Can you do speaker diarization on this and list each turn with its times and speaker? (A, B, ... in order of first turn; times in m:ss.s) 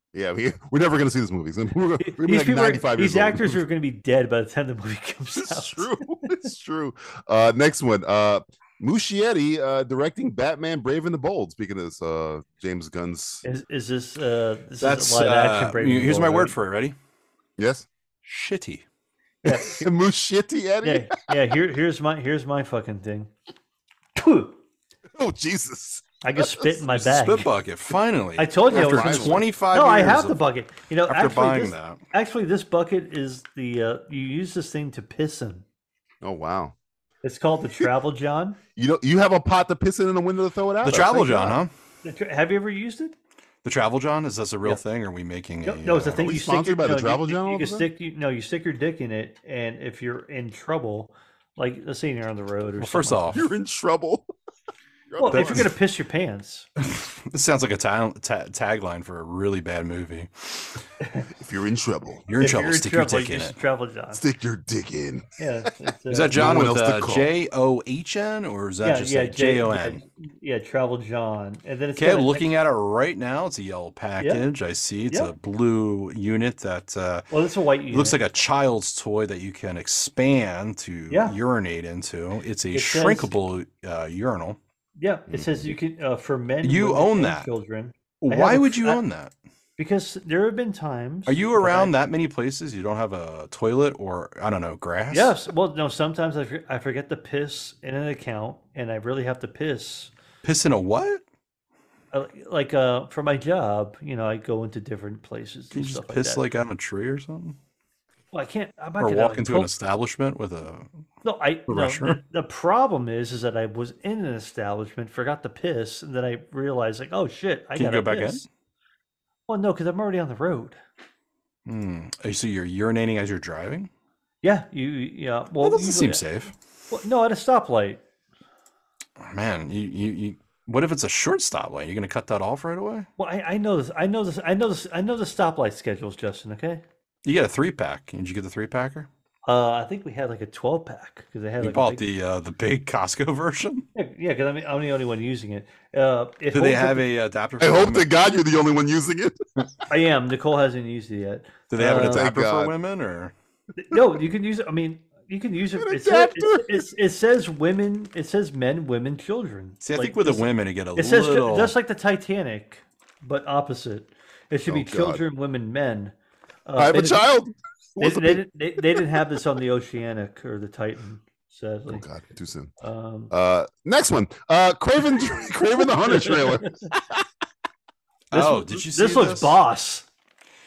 0:00.1-0:03.6 A
0:02.2-0:05.9 B
0:05.3-0:13.4 A
0:13.4-0:16.6 B
0:14.8-0:17.0 C
0:17.6-0:17.9 A
0:18.2-0:18.8 C
0:19.4-0:19.8 B
0:19.6-0:21.4 A
0:20.8-0:23.3 B
0:24.2-0:24.6 B
0:25.2-0:26.6 A
0:26.2-0:27.5 B
0:26.9-0:30.4 C
0:28.4-0:35.6 B
0:28.7-0:29.4 A
0:31.1-0:32.0 C
0:36.2-0:36.8 A
0:37.2-0:38.6 B
0:38.8-0:41.6 A
0:40.8-0:41.7 C
0:42.0-0:43.2 B
0:43.6-0:46.2 C
0:45.6-0:53.3 B
0:46.2-0:47.9 A
0:52.8-0:53.4 C
0:53.3-0:54.3 A
0:55.1-0:55.7 A
0:55.2-0:56.7 B
0:55.3-0:55.7 C
0:56.8-1:00.7 C
1:01.4-1:02.3 A
1:02.3-1:03.6 C
1:02.4-1:04.2 B
1:04.1-1:05.3 A
1:05.4-1:06.4 B
1:06.1-1:10.0 C
1:06.3-1:07.3 A
1:08.8-1:12.5 B
1:12.0-1:17.3 C
1:14.2-1:14.5 B
1:17.3-1:18.2 B
1:17.9-1:24.6 C
1:21.1-1:21.4 B
1:22.7-1:23.3 B
1:25.0-1:29.0 B
1:25.3-1:25.7 A
1:26.6-1:27.5 C
1:28.2-1:29.3 C
1:29.8-1:31.9 B
1:31.3-1:35.4 C
1:35.1-1:40.1 B
1:40.4-1:41.2 C
1:42.1-1:46.4 B
1:45.7-1:47.6 C
1:48.3-1:49.7 B
1:49.0-1:50.9 C
1:51.2-1:58.4 B
1:51.7-1:52.2 C
1:57.8-1:58.4 C
1:59.5-2:00.8 B
2:01.7-2:03.9 C
2:04.4-2:06.2 B
2:05.6-2:06.5 C
2:06.9-2:08.0 B
2:09.2-2:13.1 C
2:13.2-2:16.8 B
2:17.2-2:19.1 C
2:19.4-2:22.1 B
2:21.6-2:23.9 C
2:24.0-2:27.1 B
2:26.5-2:28.1 C
2:27.6-2:29.4 A
2:29.9-2:32.3 B
2:31.7-2:33.3 C
2:32.1-2:32.7 A
2:33.8-2:46.2 B
2:35.7-2:36.8 A
2:39.8-2:41.8 C
2:44.7-2:45.2 A
2:46.7-2:47.3 B
2:46.8-2:49.2 A
2:48.0-2:52.0 B
2:51.9-2:52.7 A
2:52.8-2:53.3 B
2:53.3-2:57.2 A
2:56.0-2:56.8 B
2:58.3-2:59.6 C
2:58.3-3:00.1 B